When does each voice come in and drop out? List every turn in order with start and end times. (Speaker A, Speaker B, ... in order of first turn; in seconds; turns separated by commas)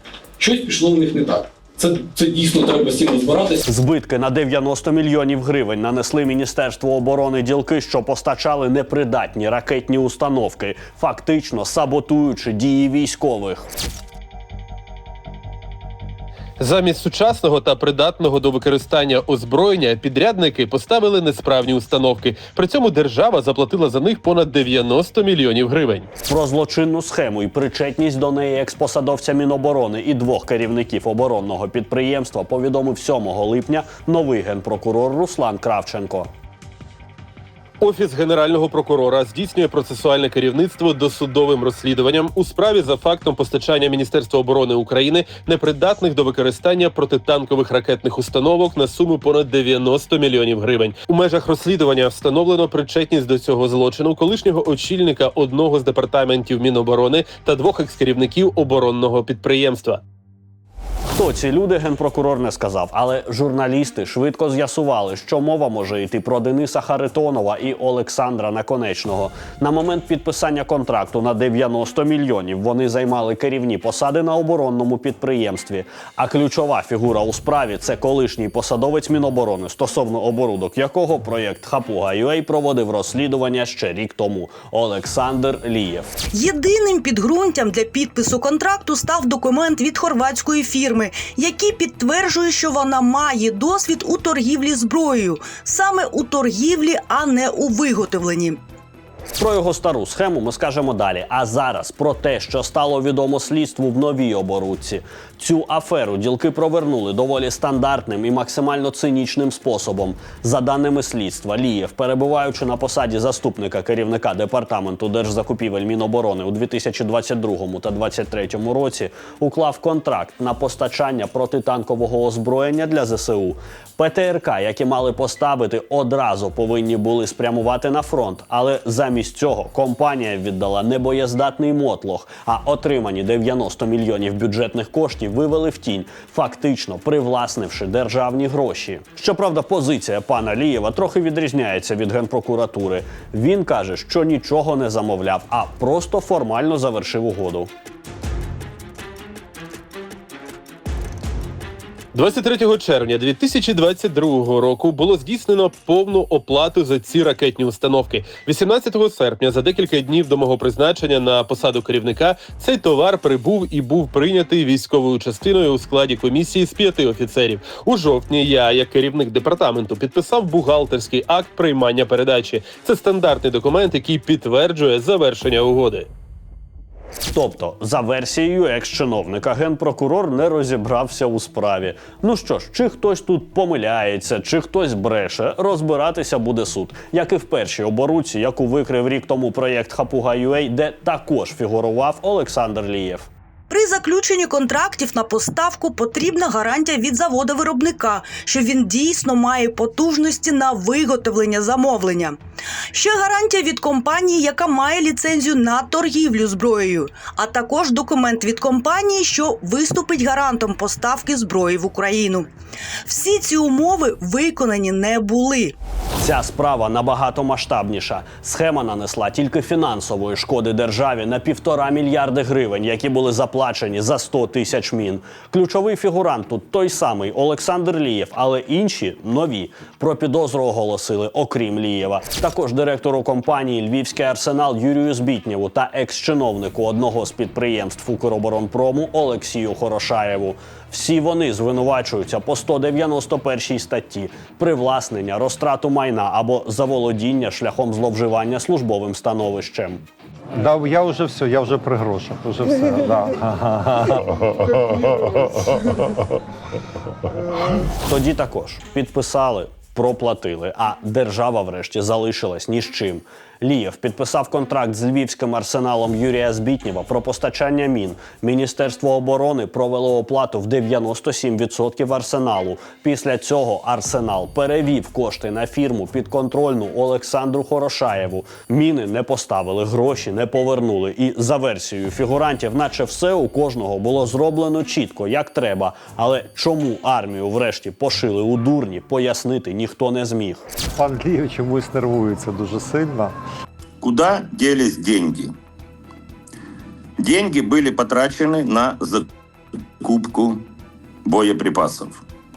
Speaker A: 0.5-3.5, Speaker B: 3.6-13.7, Speaker C: 16.6-26.1, Speaker B: 26.2-36.3, Speaker C: 37.8-60.0, Speaker B: 61.1-86.1, Speaker D: 86.3-98.6, Speaker B: 99.4-147.7, Speaker C: 152.1-176.1, Speaker B: 177.3-193.3, Speaker D: 193.7-202.4, Speaker D: 202.9-212.5, Speaker D: 213.1-215.8, Speaker B: 216.2-250.0, Speaker E: 250.5-255.5, Speaker B: 258.0-290.6, Speaker E: 291.0-293.3, Speaker F: 294.0-295.5, Speaker F: 297.2-299.3, Speaker F: 300.0-300.6, Speaker F: 301.2-302.2